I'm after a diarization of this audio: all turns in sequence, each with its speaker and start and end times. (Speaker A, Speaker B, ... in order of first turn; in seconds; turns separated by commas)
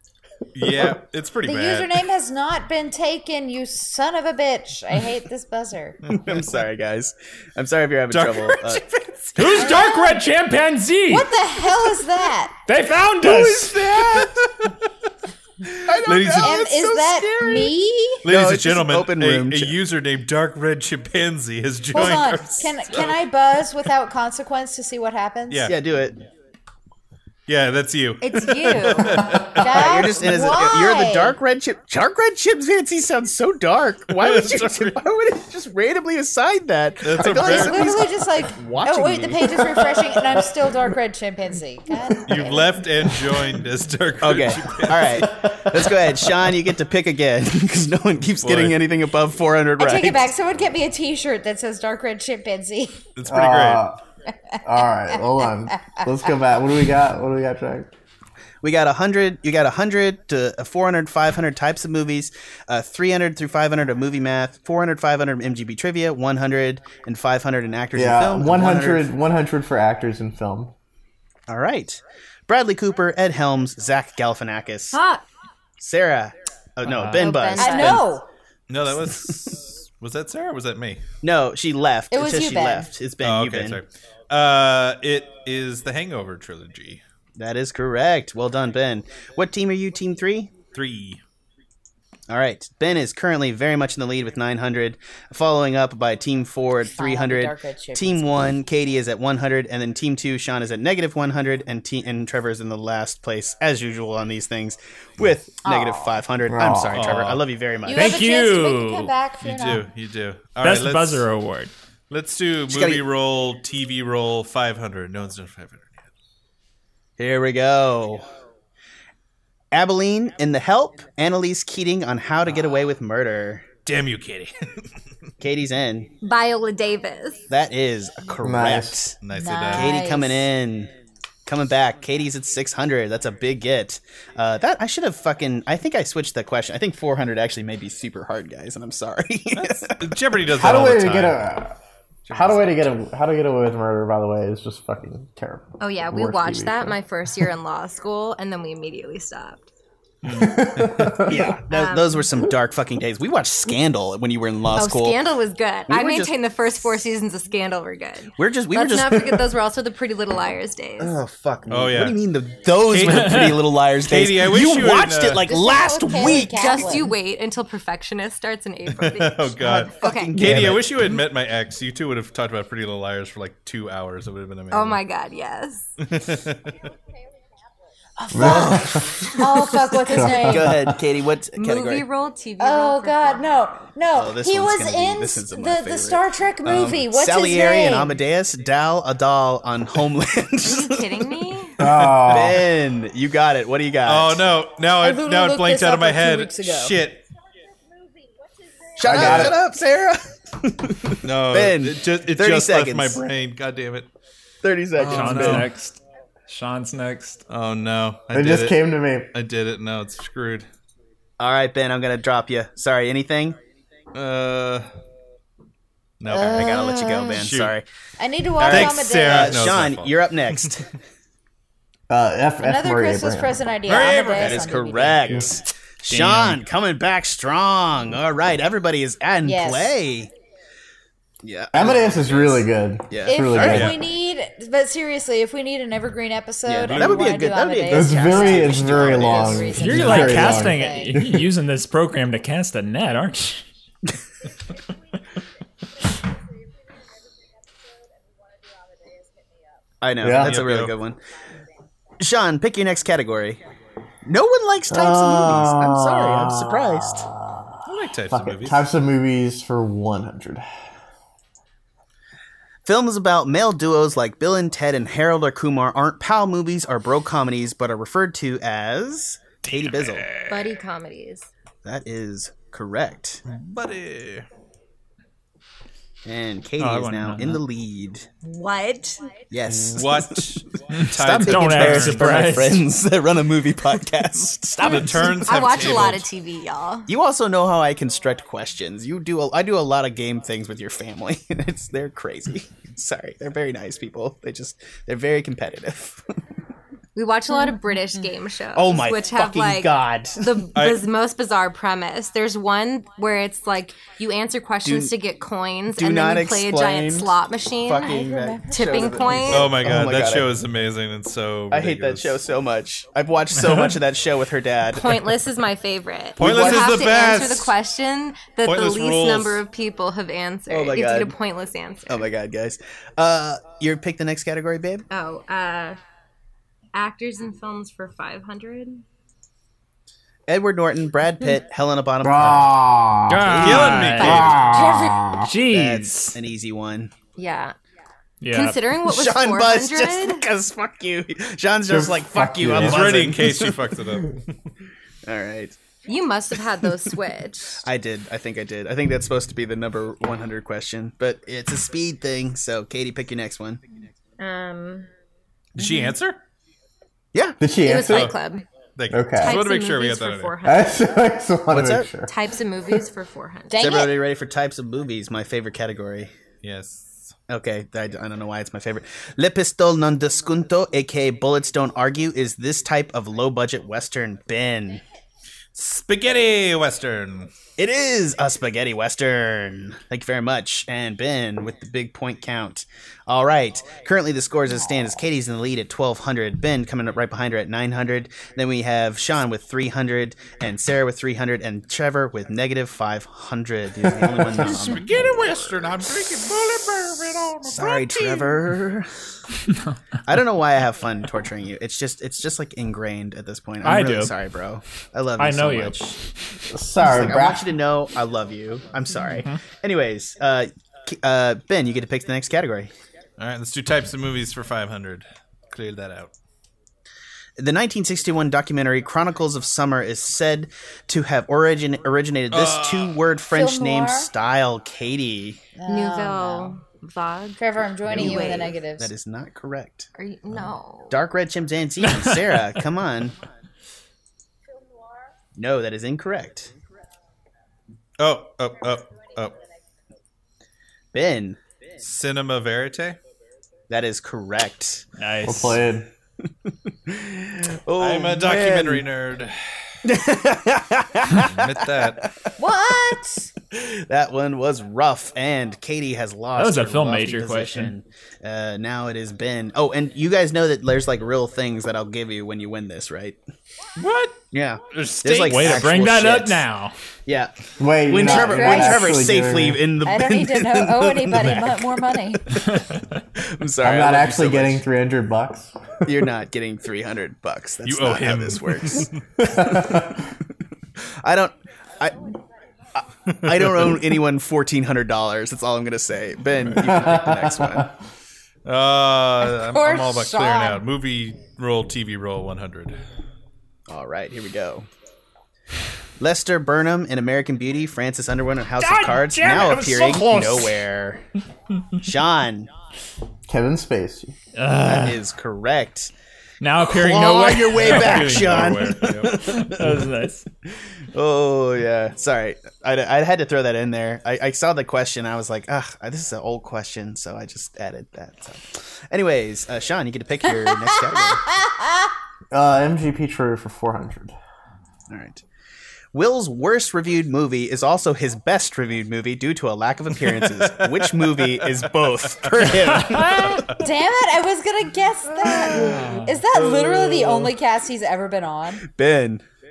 Speaker A: 0.6-2.0, Speaker B: 1.4-6.0, Speaker A: 6.1-6.5, Speaker C: 6.1-8.8, Speaker A: 8.1-9.8, Speaker D: 9.4-11.3, Speaker B: 9.6-10.2, Speaker B: 11.1-12.6, Speaker D: 12.7-13.9, Speaker A: 13.3-14.7, Speaker C: 13.3-14.4, Speaker C: 15.7-17.7, Speaker A: 16.0-16.9, Speaker B: 16.3-18.2, Speaker A: 18.2-23.1, Speaker C: 18.2-19.8, Speaker B: 21.9-25.7, Speaker A: 25.5-25.7, Speaker C: 25.7-26.2, Speaker A: 27.5-29.9, Speaker E: 28.2-29.3, Speaker B: 29.6-31.4, Speaker C: 29.6-39.9, Speaker A: 34.2-35.0, Speaker A: 37.0-38.1, Speaker B: 37.3-42.8, Speaker A: 42.3-45.5, Speaker C: 44.2-50.3, Speaker A: 48.4-48.8, Speaker B: 49.8-53.0, Speaker A: 53.1-53.9, Speaker F: 53.3-54.0, Speaker B: 54.5-54.9, Speaker F: 54.6-57.9, Speaker B: 55.4-56.1, Speaker C: 58.6-69.1, Speaker F: 67.9-70.7, Speaker C: 71.5-75.0, Speaker E: 74.9-75.2, Speaker C: 75.8-78.1, Speaker E: 77.1-78.0, Speaker B: 77.6-78.2, Speaker A: 78.7-81.0, Speaker C: 78.9-79.4, Speaker C: 81.2-83.8, Speaker B: 82.1-82.9, Speaker A: 83.2-87.0, Speaker C: 87.4-90.5, Speaker A: 90.7-91.2, Speaker C: 92.3-108.2, Speaker B: 96.9-98.5, Speaker B: 105.6-106.2, Speaker F: 106.5-107.1, Speaker A: 106.9-107.4, Speaker B: 107.9-109.9, Speaker D: 107.9-109.1, Speaker A: 109.4-111.3, Speaker D: 110.6-111.7, Speaker A: 112.1-116.0, Speaker C: 112.7-113.0, Speaker C: 117.2-118.3, Speaker C: 119.7-123.7, Speaker A: 123.8-124.9, Speaker C: 125.4-126.1, Speaker E: 126.2-127.4, Speaker C: 127.5-129.2, Speaker F: 128.4-129.1, Speaker A: 129.2-130.0, Speaker B: 129.3-130.5, Speaker C: 129.7-130.9, Speaker C: 131.4-140.1, Speaker A: 139.6-141.4, Speaker F: 140.5-141.7, Speaker A: 142.2-142.8, Speaker F: 142.3-146.9, Speaker E: 145.8-149.7, Speaker D: 150.3-150.6, Speaker F: 150.3-151.4, Speaker A: 150.8-151.2, Speaker C: 151.2-155.2, Speaker E: 151.7-152.4, Speaker E: 154.7-161.1, Speaker C: 155.9-156.3, Speaker C: 158.4-159.5, Speaker F: 161.0-161.9, Speaker A: 161.7-162.2, Speaker C: 161.7-167.0, Speaker A: 162.8-165.5, Speaker D: 163.1-163.6, Speaker B: 165.5-167.1, Speaker E: 166.5-170.5, Speaker A: 168.9-175.0, Speaker C: 169.6-171.2, Speaker E: 174.7-175.9, Speaker A: 176.0-176.7, Speaker B: 178.2-180.7, Speaker F: 178.3-179.2, Speaker C: 178.5-179.0, Speaker E: 178.6-179.7, Speaker F: 179.9-181.0, Speaker C: 180.3-182.1, Speaker E: 181.6-183.8, Speaker B: 182.6-188.2, Speaker C: 184.1-191.2, Speaker E: 190.6-191.8, Speaker F: 191.8-192.7, Speaker A: 191.8-192.5, Speaker C: 192.3-194.5, Speaker A: 194.1-197.2, Speaker B: 195.0-196.9, Speaker C: 198.9-203.2, Speaker F: 199.0-199.6, Speaker A: 201.2-204.1, Speaker C: 204.6-205.7, Speaker D: 204.9-207.4, Speaker A: 205.0-205.7, Speaker A: 207.5-210.7, Speaker F: 208.3-209.3, Speaker C: 211.4-213.6, Speaker A: 214.1-214.9, Speaker A: 216.2-217.8, Speaker C: 216.3-217.8, Speaker E: 216.3-217.2, Speaker B: 218.2-219.7, Speaker A: 218.6-220.8, Speaker C: 218.6-220.9, Speaker F: 222.1-223.6, Speaker B: 222.6-225.4, Speaker A: 223.9-225.5, Speaker C: 223.9-230.3, Speaker D: 226.1-226.6, Speaker B: 229.4-229.9, Speaker C: 231.4-233.9, Speaker F: 231.7-234.0, Speaker B: 233.2-241.2, Speaker A: 233.6-234.0, Speaker C: 236.6-240.4, Speaker A: 236.9-237.2, Speaker F: 237.9-241.4, Speaker D: 239.8-243.7, Speaker C: 250.0-251.2, Speaker F: 250.2-250.6, Speaker A: 250.4-250.9, Speaker C: 252.2-253.6, Speaker C: 254.2-257.3, Speaker F: 254.9-260.6, Speaker A: 257.9-258.9, Speaker C: 262.9-270.3, Speaker A: 269.7-270.5, Speaker E: 270.5-271.5, Speaker C: 271.9-273.4, Speaker A: 273.5-274.4, Speaker C: 276.2-278.3, Speaker D: 276.8-277.6, Speaker E: 278.4-279.3, Speaker C: 279.5-280.5, Speaker A: 279.7-282.6, Speaker D: 280.9-282.9, Speaker C: 281.1-286.2, Speaker A: 284.8-286.3, Speaker E: 284.9-287.1, Speaker C: 287.1-296.2, Speaker E: 297.1-309.7, Speaker C: 298.7-300.7, Speaker A: 300.7-301.1, Speaker C: 304.9-305.1, Speaker C: 305.9-310.5, Speaker B: 307.9-309.6, Speaker A: 309.5-312.4, Speaker C: 311.7-315.1, Speaker E: 314.9-322.3, Speaker C: 316.4-317.0, Speaker A: 316.4-317.7, Speaker A: 318.6-319.6, Speaker C: 320.7-321.4, Speaker C: 322.1-325.1, Speaker E: 325.1-326.0, Speaker E: 326.9-329.0, Speaker C: 330.5-332.7, Speaker F: 332.2-333.6, Speaker D: 333.3-336.4, Speaker A: 333.5-334.8, Speaker C: 333.6-334.0, Speaker E: 334.1-335.1, Speaker F: 334.3-335.6, Speaker C: 335.7-337.1, Speaker E: 337.4-337.7, Speaker D: 338.4-338.8, Speaker E: 338.5-340.4, Speaker C: 339.0-343.9, Speaker F: 341.9-343.2, Speaker A: 342.7-344.6, Speaker C: 345.2-345.8, Speaker E: 346.1-347.9, Speaker C: 347.8-353.8, Speaker E: 354.4-355.1, Speaker A: 355.8-356.4, Speaker C: 357.3-357.6, Speaker F: 357.6-358.4, Speaker E: 357.8-358.6, Speaker A: 358.1-358.4, Speaker A: 358.9-360.6, Speaker F: 359.1-359.6, Speaker E: 359.4-361.0, Speaker F: 360.6-362.3, Speaker C: 361.7-362.1, Speaker E: 362.3-364.1, Speaker B: 363.7-364.2, Speaker C: 363.8-366.3, Speaker A: 366.6-367.4, Speaker C: 367.5-375.0, Speaker A: 375.7-377.5, Speaker C: 377.8-395.9, Speaker A: 394.5-398.6, Speaker C: 397.6-399.1, Speaker C: 400.2-406.2, Speaker D: 403.8-404.3, Speaker D: 405.4-406.0, Speaker F: 406.7-407.7, Speaker C: 407.0-412.9, Speaker D: 409.2-409.6, Speaker A: 413.4-416.3, Speaker C: 417.6-425.6, Speaker A: 422.5-423.2, Speaker B: 423.5-424.3, Speaker B: 425.8-426.7, Speaker E: 425.9-428.8, Speaker B: 427.6-429.1, Speaker C: 428.1-430.1, Speaker E: 430.2-431.2, Speaker C: 431.1-433.4, Speaker C: 435.6-436.7, Speaker A: 438.2-439.6, Speaker C: 441.1-441.6, Speaker A: 442.0-443.2, Speaker C: 443.9-445.1, Speaker D: 445.2-445.8, Speaker F: 445.4-446.1, Speaker C: 447.1-449.1, Speaker A: 448.0-449.6, Speaker C: 450.0-452.5, Speaker A: 451.4-452.3, Speaker B: 452.6-453.5, Speaker C: 453.7-463.4, Speaker D: 456.6-457.9, Speaker A: 464.0-464.4, Speaker C: 464.5-466.6, Speaker A: 464.9-466.1, Speaker D: 465.4-466.9, Speaker C: 467.2-467.6, Speaker F: 467.8-469.9, Speaker C: 468.1-471.8, Speaker B: 468.1-469.2, Speaker B: 470.0-472.7, Speaker C: 473.4-474.8, Speaker F: 473.8-475.8, Speaker C: 476.0-480.2, Speaker A: 477.8-479.2, Speaker F: 479.4-480.2, Speaker C: 481.0-482.3, Speaker C: 482.9-487.9, Speaker A: 483.4-484.1, Speaker A: 486.6-486.9, Speaker F: 486.8-487.9, Speaker A: 488.6-493.0, Speaker B: 489.4-490.8, Speaker C: 493.9-494.9, Speaker C: 496.2-501.2, Speaker D: 498.8-500.9, Speaker C: 502.0-502.7, Speaker F: 503.5-504.3, Speaker D: 504.6-505.2, Speaker C: 504.8-506.1, Speaker D: 506.6-510.4, Speaker C: 506.9-510.1, Speaker A: 507.8-509.4, Speaker C: 511.1-521.5, Speaker F: 522.5-524.4, Speaker C: 525.1-525.4, Speaker C: 526.1-533.7, Speaker A: 530.2-533.9, Speaker D: 533.0-533.7, Speaker B: 533.8-538.8, Speaker A: 535.5-536.0, Speaker D: 535.8-536.5, Speaker A: 536.6-537.5, Speaker C: 538.9-539.4